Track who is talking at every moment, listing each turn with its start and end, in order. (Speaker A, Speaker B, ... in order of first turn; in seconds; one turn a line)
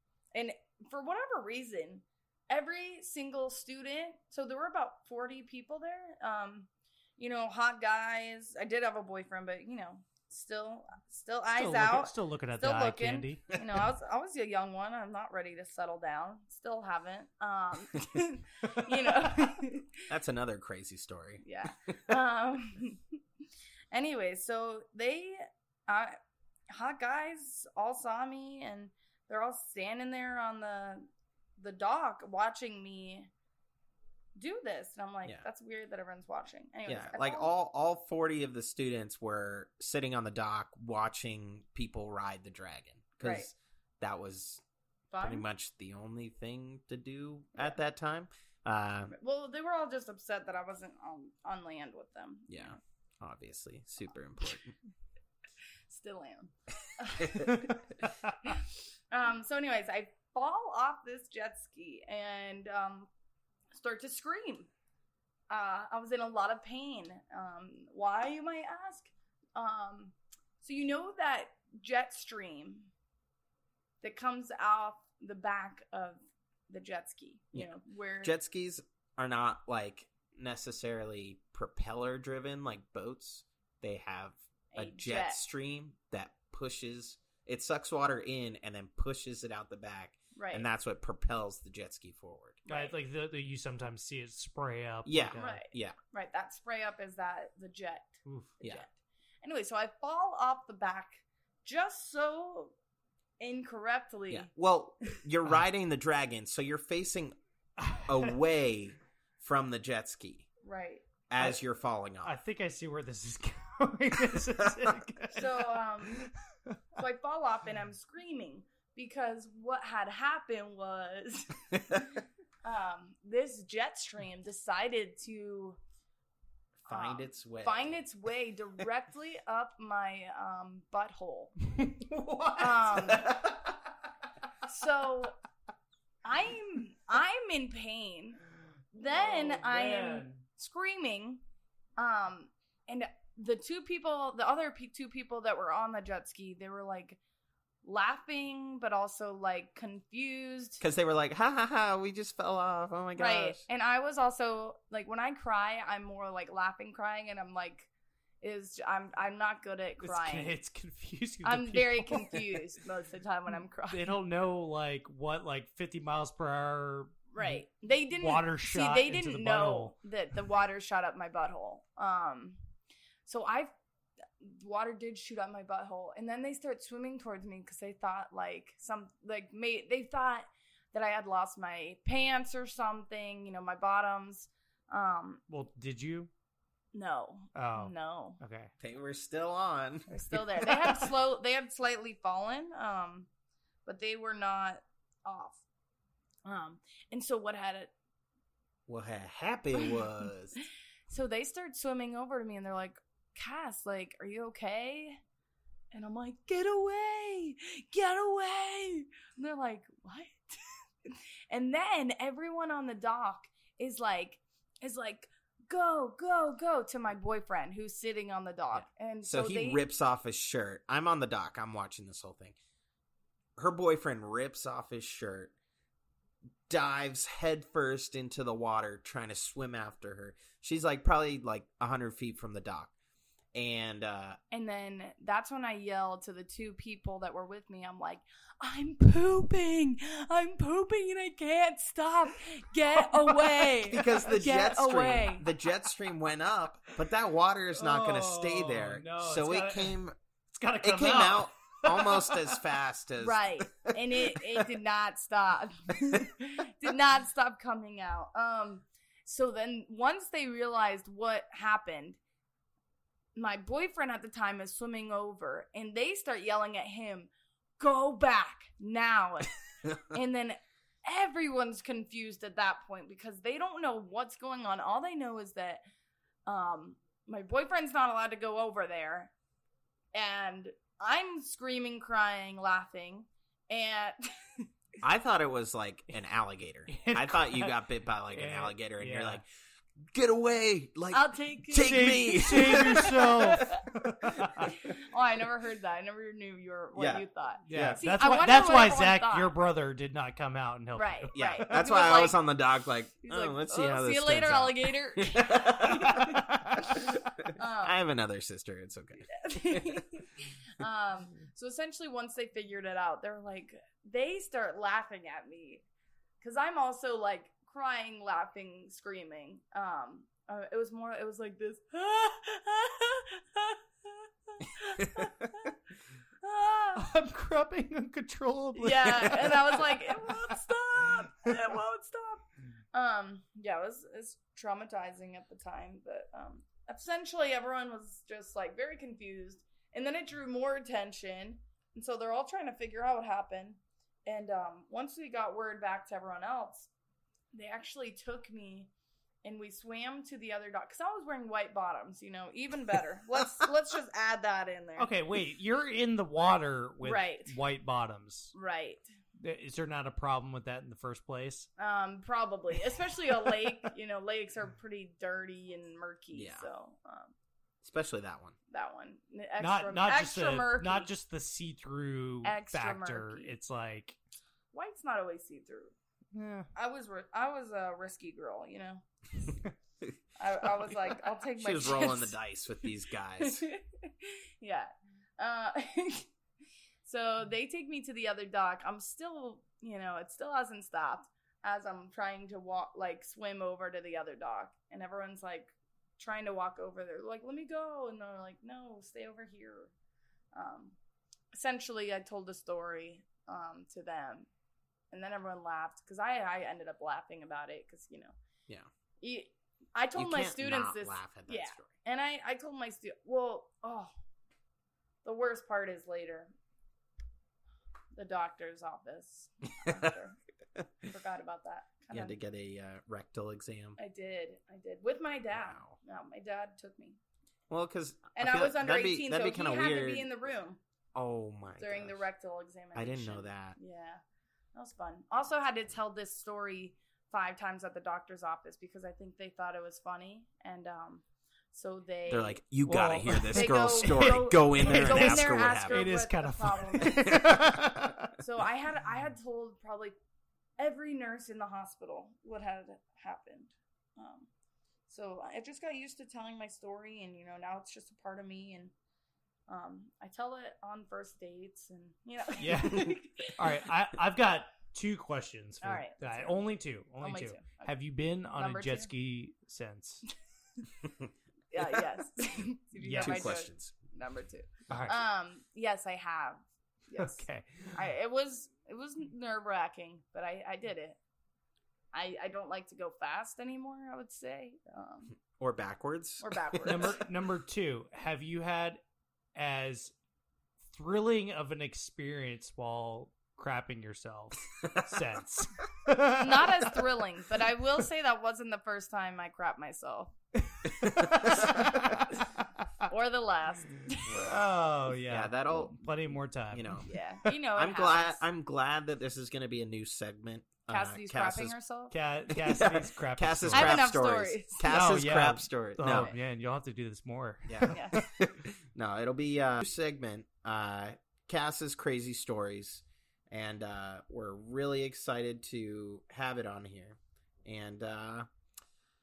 Speaker A: 0.3-20.1
Speaker B: 11.6-13.6
Speaker C: 20.1-21.4
Speaker A: 21.4-23.0
Speaker A: 23.9-26.2
Speaker A: 26.7-33.3
Speaker A: 34.4-37.5
Speaker C: 36.9-44.6
Speaker A: 43.2-43.5
Speaker A: 45.1-45.5
Speaker C: 45.2-49.1
Speaker A: 49.1-52.8
Speaker C: 52.5-54.8
Speaker A: 55.9-57.8
Speaker C: 57.2-57.5
Speaker A: 59.1-63.1
Speaker A: 63.7-64.7
Speaker A: 65.5-72.9
Speaker A: 74.0-78.3
Speaker C: 77.5-92.6
Speaker A: 84.7-85.4
Speaker A: 90.3-90.7
Speaker A: 92.7-93.0
Speaker B: 92.7-95.6
Speaker C: 95.0-96.0
Speaker A: 95.3-98.9
Speaker B: 98.3-98.5
Speaker A: 99.4-102.7
Speaker A: 103.4-104.5
Speaker C: 104.3-107.4
Speaker B: 107.8-108.3
Speaker C: 108.0-110.5
Speaker A: 110.6-111.0
Speaker C: 111.3-112.3
Speaker B: 112.2-116.8
Speaker A: 115.3-116.3
Speaker A: 117.0-122.0
Speaker A: 122.6-125.8
Speaker C: 126.9-128.0
Speaker A: 126.9-131.6
Speaker C: 132.2-133.8
Speaker A: 132.6-133.3
Speaker A: 134.7-135.4
Speaker A: 136.2-138.4
Speaker A: 138.9-141.4
Speaker B: 139.1-140.4
Speaker A: 142.0-147.2
Speaker A: 147.8-150.8
Speaker C: 150.8-153.6
Speaker A: 153.2-157.9
Speaker A: 158.4-160.5
Speaker B: 160.0-162.6
Speaker A: 161.4-164.1
Speaker B: 163.9-167.6
Speaker A: 167.3-172.6
Speaker B: 168.1-169.9
Speaker A: 173.3-173.7
Speaker A: 174.4-185.4
Speaker B: 185.5-186.3
Speaker A: 186.9-188.4
Speaker B: 187.6-188.7
Speaker C: 188.8-191.1
Speaker A: 190.1-193.3
Speaker A: 193.8-195.6
Speaker A: 196.4-197.9
Speaker C: 198.9-200.6
Speaker A: 199.8-200.0
Speaker A: 201.1-205.2
Speaker A: 205.9-219.8
Speaker C: 219.2-222.6
Speaker C: 223.6-225.5
Speaker C: 226.7-232.9
Speaker C: 233.5-234.4
Speaker A: 234.5-245.5
Speaker B: 243.2-243.7
Speaker C: 243.8-250.1
Speaker B: 247.7-249.9
Speaker B: 250.5-252.6
Speaker C: 250.8-254.6
Speaker A: 253.2-262.2
Speaker A: 263.4-275.8
Speaker A: 276.4-279.3
Speaker A: 280.1-284.7
Speaker C: 285.0-289.4
Speaker B: 286.9-287.8
Speaker B: 288.3-289.4
Speaker C: 290.1-293.4
Speaker A: 291.1-293.9
Speaker B: 291.8-294.7
Speaker C: 294.2-294.7
Speaker A: 294.4-299.5
Speaker C: 296.9-298.0
Speaker B: 297.7-301.7
Speaker A: 300.9-302.4
Speaker C: 301.4-310.0
Speaker A: 303.2-308.0
Speaker A: 309.3-315.8
Speaker A: 316.4-325.7
Speaker A: 326.4-327.1
Speaker B: 327.0-330.6
Speaker A: 328.8-346.9
Speaker A: 347.5-348.9
Speaker A: 349.4-355.1
Speaker B: 355.0-358.5
Speaker A: 357.0-357.5
Speaker A: 358.5-359.1
Speaker B: 359.4-361.7
Speaker A: 361.8-367.3
Speaker C: 366.3-366.7
Speaker C: 367.8-368.6
Speaker A: 368.7-371.1
Speaker B: 369.6-374.2
Speaker A: 372.4-373.5
Speaker A: 374.7-375.9
Speaker B: 376.3-376.7
Speaker A: 376.7-379.1
Speaker A: 380.4-382.4
Speaker C: 381.6-383.7
Speaker A: 383.4-386.3
Speaker A: 387.1-399.9
Speaker A: 400.5-400.9
Speaker A: 401.5-404.5
Speaker A: 405.1-408.3
Speaker A: 409.2-414.1
Speaker C: 410.1-411.9
Speaker A: 415.2-416.5
Speaker A: 418.1-420.4
Speaker A: 421.0-422.4
Speaker C: 422.1-424.0
Speaker A: 424.0-427.2
Speaker C: 425.5-425.9
Speaker C: 427.7-430.3
Speaker A: 428.4-430.8
Speaker C: 431.1-432.3
Speaker A: 431.8-434.2
Speaker C: 432.9-433.8
Speaker A: 434.7-442.6
Speaker C: 442.3-446.1
Speaker B: 442.9-448.4
Speaker A: 443.3-447.6
Speaker C: 447.3-447.5
Speaker A: 448.4-450.1
Speaker A: 450.8-454.5
Speaker A: 455.1-458.9
Speaker A: 459.7-463.8
Speaker B: 462.6-470.3
Speaker A: 465.8-466.6
Speaker A: 467.2-467.9
Speaker A: 468.6-469.1
Speaker C: 471.1-471.3
Speaker A: 471.7-481.2
Speaker B: 473.0-473.6
Speaker C: 473.2-473.9
Speaker B: 474.9-475.2
Speaker B: 477.2-477.9
Speaker A: 482.1-485.3
Speaker C: 485.6-487.2
Speaker A: 486.4-487.2
Speaker B: 486.9-489.0
Speaker B: 489.6-490.1
Speaker B: 490.9-497.0
Speaker A: 496.4-500.3
Speaker B: 500.7-502.2
Speaker C: 501.1-501.3
Speaker A: 501.4-502.5
Speaker A: 503.0-504.5
Speaker B: 504.3-507.0
Speaker C: 505.3-506.0
Speaker C: 506.7-507.1
Speaker A: 507.1-508.4
Speaker C: 507.7-511.7
Speaker A: 510.9-512.1
Speaker B: 512.1-514.1
Speaker C: 512.5-516.3
Speaker A: 513.7-514.9
Speaker B: 514.9-518.0
Speaker A: 516.0-516.4
Speaker C: 517.7-528.5
Speaker A: 517.9-518.2